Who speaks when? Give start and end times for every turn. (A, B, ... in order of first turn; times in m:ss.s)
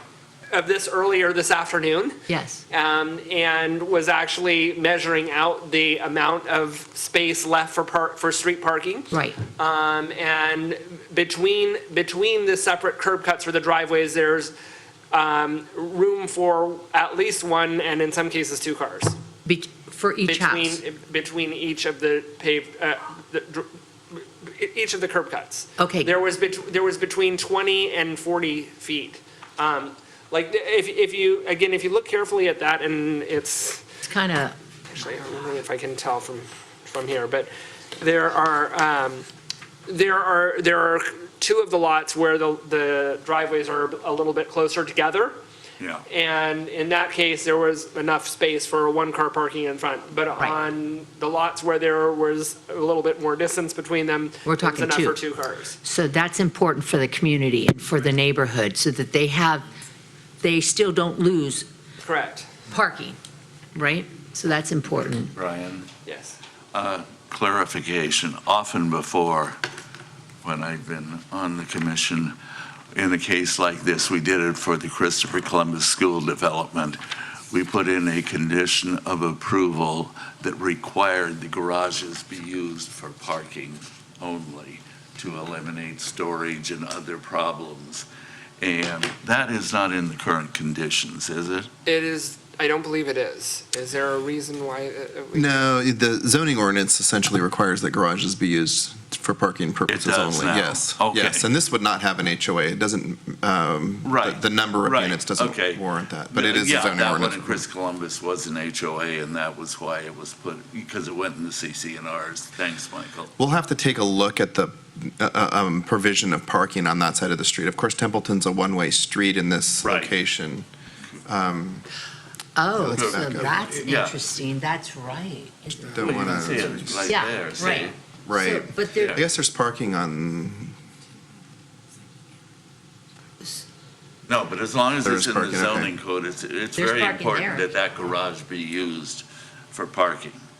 0:00.5-0:02.1 A
0:02.3-0:02.6 B
0:02.7-0:14.5 A
0:09.1-0:09.4 B
0:15.1-0:19.1 A
0:19.4-0:20.8 B
0:20.2-0:33.8 A
0:25.8-0:26.1 B
0:34.0-0:34.5 B
0:34.9-0:39.2 A
0:39.9-0:45.4 A
0:45.8-0:46.0 C
0:46.1-0:55.8 A
0:54.4-0:55.2 B
0:55.8-0:59.7 B
1:00.4-1:01.6 B
1:02.0-1:02.5 A
1:02.7-1:03.2 B
1:03.7-1:05.3 B
1:05.3-1:05.9 C
1:06.0-1:06.4 A
1:06.7-1:09.6 C
1:10.4-1:12.3 C
1:12.9-1:17.0 C
1:17.5-1:28.0 C
1:28.6-1:31.7 C
1:31.8-1:35.6 A
1:35.3-1:47.6 D
1:39.9-1:41.5 C
1:44.0-1:53.3 C
1:53.4-2:00.7 D
1:59.8-2:00.2 C
2:01.2-2:01.8 D
2:02.6-2:06.2 B
2:02.7-2:03.7 D
2:03.0-2:04.2 C
2:05.8-2:07.1 D
2:06.0-2:07.9 C
2:07.0-2:09.2 B
2:08.2-2:10.7 D
2:09.0-2:09.2 C
2:14.3-2:20.4 C
2:15.0-2:15.9 D
2:16.8-2:17.7 B